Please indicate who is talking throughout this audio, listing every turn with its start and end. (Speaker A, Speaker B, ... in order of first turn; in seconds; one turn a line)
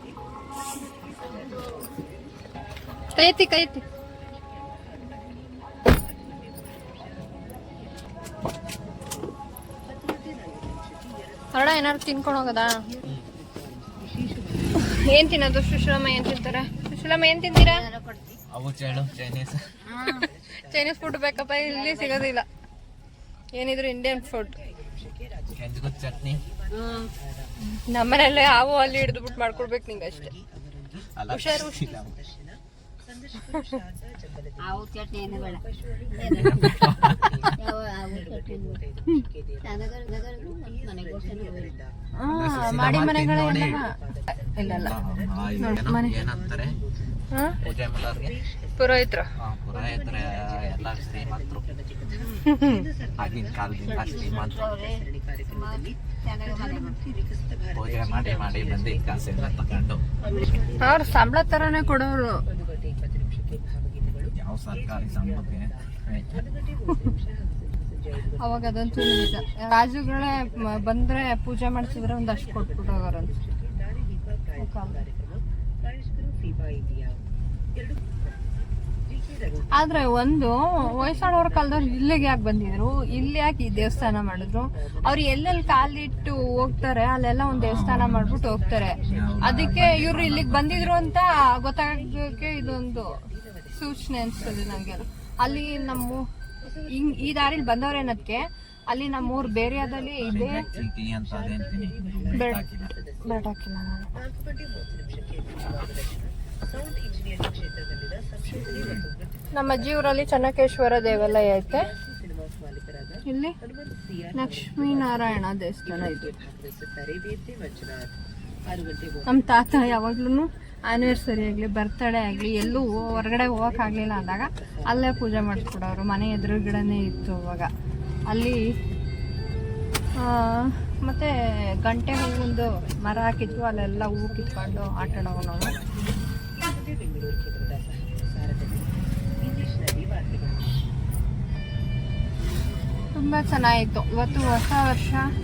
Speaker A: 3.1-3.8
Speaker A: 11.5-12.8
Speaker A: 14.7-17.9
Speaker B: 17.6-18.3
Speaker C: 18.5-19.6
Speaker B: 19.9-20.3
Speaker A: 20.0-22.4
Speaker B: 21.7-22.2
Speaker A: 23.5-24.6
Speaker C: 25.5-26.4
Speaker B: 26.7-27.1
Speaker A: 27.9-30.3
Speaker C: 31.1-32.2
Speaker A: 31.3-31.8
Speaker B: 34.6-36.9
Speaker C: 36.2-37.5
Speaker B: 37.5-38.9
Speaker B: 39.6-41.8
Speaker A: 42.1-44.9
Speaker C: 42.3-43.8
Speaker C: 44.7-46.8
Speaker A: 45.6-46.1
Speaker A: 47.3-47.6
Speaker C: 47.6-48.4
Speaker A: 48.8-49.2
Speaker C: 49.4-51.7
Speaker B: 52.1-52.5
Speaker A: 52.4-52.9
Speaker C: 53.2-54.9
Speaker B: 53.7-57.1
Speaker C: 57.7-60.1
Speaker B: 60.2-60.7
Speaker A: 60.8-62.4
Speaker C: 64.3-66.4
Speaker A: 68.4-73.4
Speaker A: 74.6-75.0
Speaker A: 79.7-96.3
Speaker C: 87.5-88.4
Speaker C: 89.0-91.1
Speaker A: 96.9-100.6
Speaker C: 100.2-102.9
Speaker A: 102.3-102.6
Speaker A: 103.2-104.1
Speaker C: 108.5-109.1
Speaker A: 109.5-111.9
Speaker A: 113.2-113.5
Speaker A: 114.3-116.3
Speaker A: 119.2-127.7
Speaker A: 128.3-128.6
Speaker A: 130.2-131.3
Speaker A: 131.8-135.8
Speaker A: 143.1-145.2